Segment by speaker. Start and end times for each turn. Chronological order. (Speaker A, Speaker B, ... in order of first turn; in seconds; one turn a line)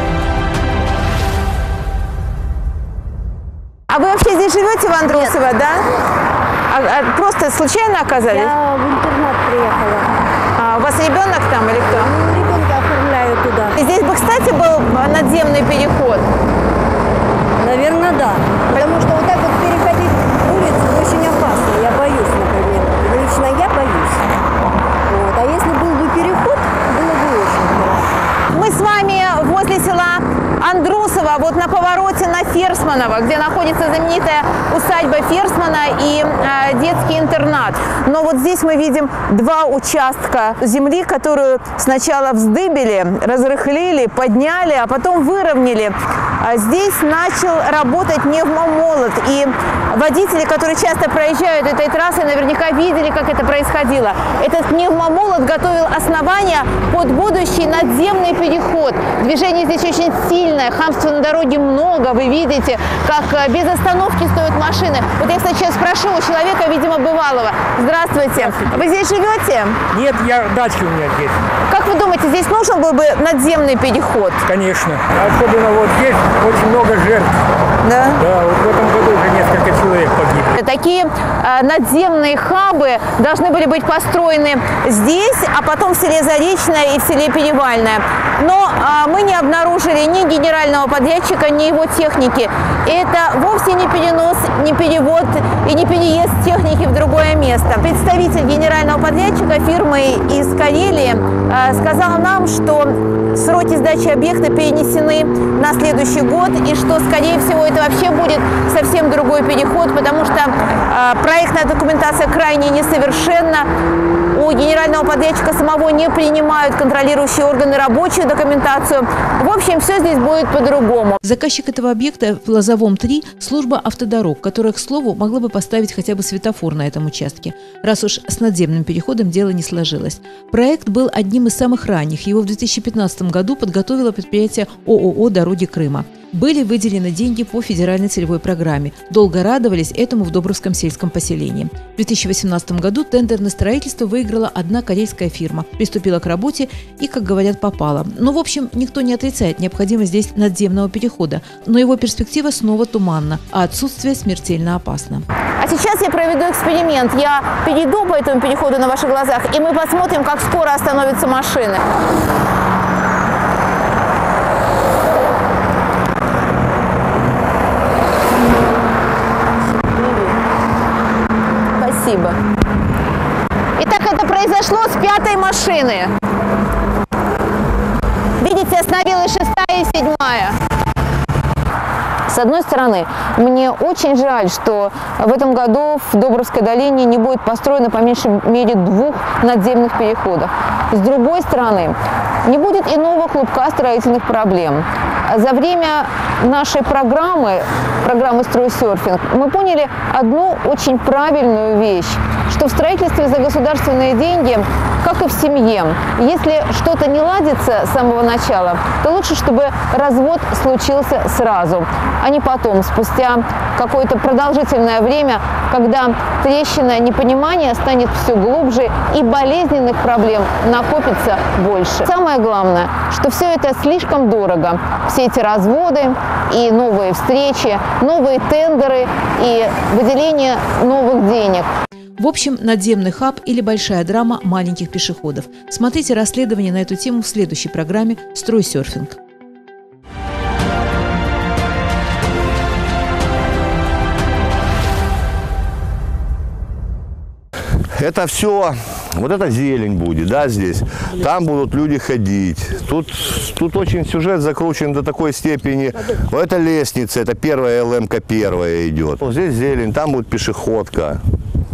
Speaker A: 3.9-5.8
Speaker B: 5.0-5.4
Speaker A: 6.7-8.5
Speaker B: 8.3-10.1
Speaker A: 10.6-12.1
Speaker B: 11.9-13.8
Speaker A: 13.8-16.2
Speaker B: 17.6-24.2
Speaker B: 25.1-28.3
Speaker A: 28.5-69.8
Speaker C: 68.4-68.8
Speaker C: 69.9-71.3
Speaker A: 71.7-74.4
Speaker C: 74.4-77.3
Speaker A: 77.8-78.2
Speaker C: 78.2-80.5
Speaker A: 80.6-113.7
Speaker A: 114.3-121.2
Speaker D: 121.2-155.2
Speaker A: 155.6-161.8
Speaker A: 171.7-172.3
Speaker A: 173.8-176.1
Speaker A: 178.4-180.6
Speaker A: 182.3-191.9
Speaker A: 192.4-231.7
Speaker D: 232.2-239.2
Speaker E: 247.9-261.2